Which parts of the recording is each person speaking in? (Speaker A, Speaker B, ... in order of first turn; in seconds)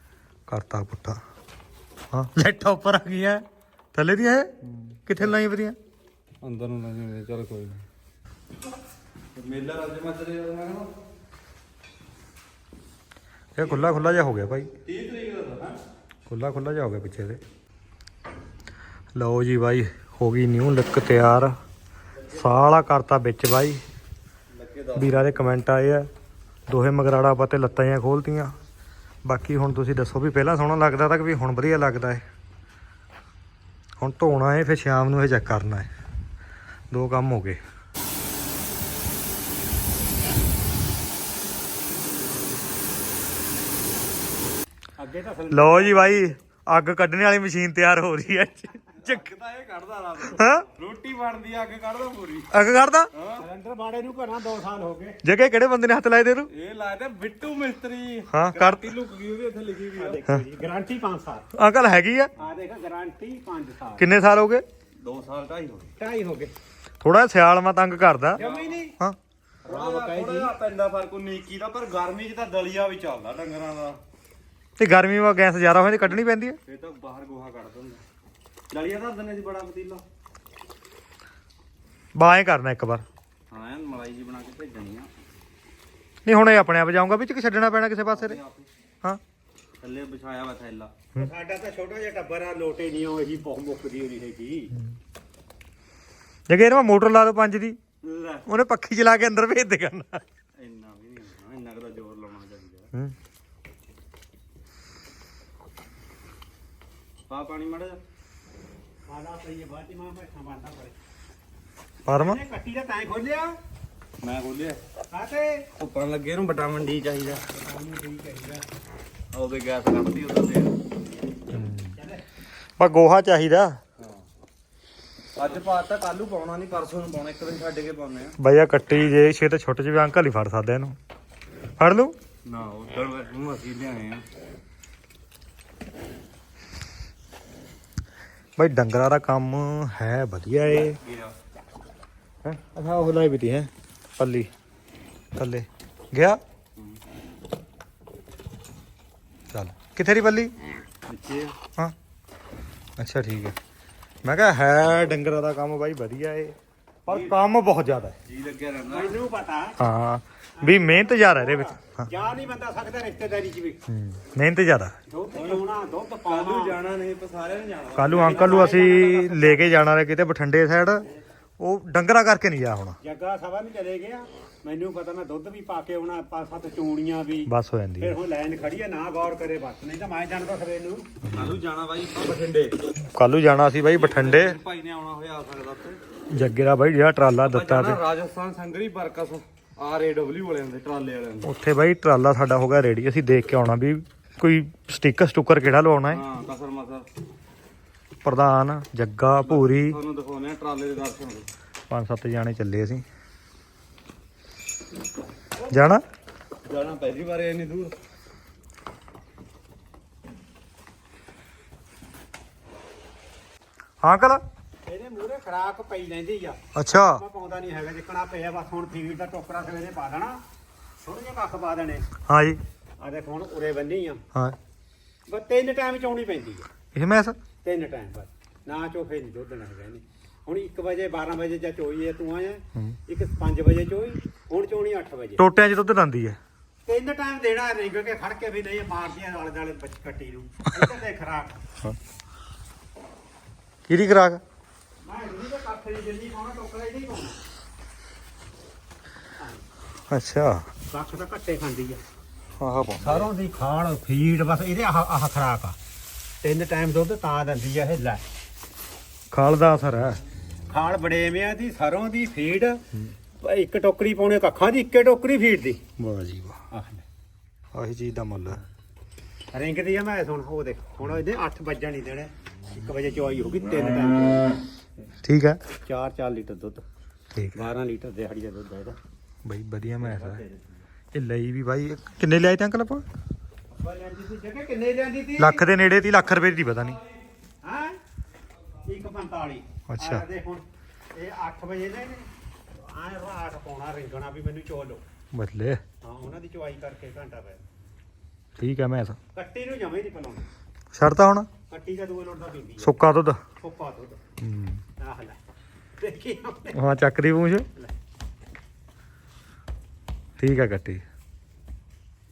Speaker A: 0.5-1.2, 2.1-4.5, 5.1-5.8, 13.6-14.7, 16.3-17.4, 19.1-21.6, 22.3-23.8, 25.0-26.1, 26.7-28.5, 29.2-32.2, 34.0-35.9, 36.9-37.6, 45.5-49.3, 50.3-50.7, 52.5-53.1, 55.2-56.5, 58.3-58.9, 61.5-62.3, 64.0-64.7, 67.0-68.4, 74.8-76.6, 82.2-83.0, 86.2-88.4, 96.5-97.8, 98.5-100.2, 112.1-112.4, 121.5-122.0, 122.8-123.8, 128.4-131.0, 131.8-132.2, 138.6-141.0, 142.4-144.5, 145.3-146.4, 149.5-150.5, 153.0-153.6, 154.2-158.2, 159.8-162.1, 163.9-165.0, 168.0-171.1, 171.6-173.0, 177.5-178.2, 181.2-181.6, 183.0-184.6, 186.3-188.0, 191.4-196.2, 198.2-200.0, 201.9-203.0, 205.7-206.0, 214.0-214.4, 216.8-217.2, 222.3-222.6, 226.9-227.4, 235.4-236.4, 243.9-244.4, 250.1-250.7, 252.6-253.3, 259.3-260.2, 266.0-266.6, 267.7-268.6, 275.2-275.6, 279.4-280.4, 281.1-283.1, 285.4-287.0, 289.9-290.3, 295.3-295.8, 298.6-299.2, 300.9-301.5, 302.8-303.4, 304.4-304.8, 306.7-307.7, 310.4-311.0
Speaker B: 4.8-5.3, 6.4-7.8, 9.3-10.9, 14.8-15.8, 24.5-25.4, 49.0-52.5, 53.1-53.5, 56.5-60.2, 65.0-65.9, 68.4-68.8, 69.7-74.0, 76.7-78.0, 78.7-80.0, 83.5-85.1, 88.1-88.7, 89.8-90.9, 98.0-98.5, 100.6-102.9, 107.3-108.0, 114.2-114.8, 115.8-117.5, 119.3-120.8, 125.4-128.4, 132.4-134.2, 140.7-141.3, 151.1-151.6, 157.1-157.3, 158.3-159.3, 165.3-165.6, 166.3-168.8, 181.3-182.8, 183.8-186.0, 187.4-191.5, 196.1-197.1, 199.5-201.5, 206.7-208.0
Speaker C: 45.0-46.3, 53.4-55.2, 60.0-61.5, 62.4-64.1, 66.0-66.5, 68.4-69.0, 69.7-70.5, 91.2-94.8, 109.1-111.0, 112.1-113.6, 115.1-115.7, 117.5-118.7, 122.0-122.2, 158.9-159.8, 160.6-163.8, 165.1-166.8, 168.2-169.8, 173.0-181.1, 214.9-220.4, 221.0-222.1, 223.0-224.2, 225.3-226.7, 227.6-235.4, 236.8-241.5, 245.0-247.4, 250.9-252.0, 253.0-255.8, 256.4-258.2, 260.7-262.8, 263.4-265.8, 266.7-267.0, 269.5-274.6, 275.8-276.8, 277.5-279.0, 280.1-280.6, 283.8-285.6, 287.6-288.0, 288.8-295.0, 296.0-297.6, 299.3-300.4, 301.7-303.0, 303.6-304.2, 305.0-305.4, 306.0-306.8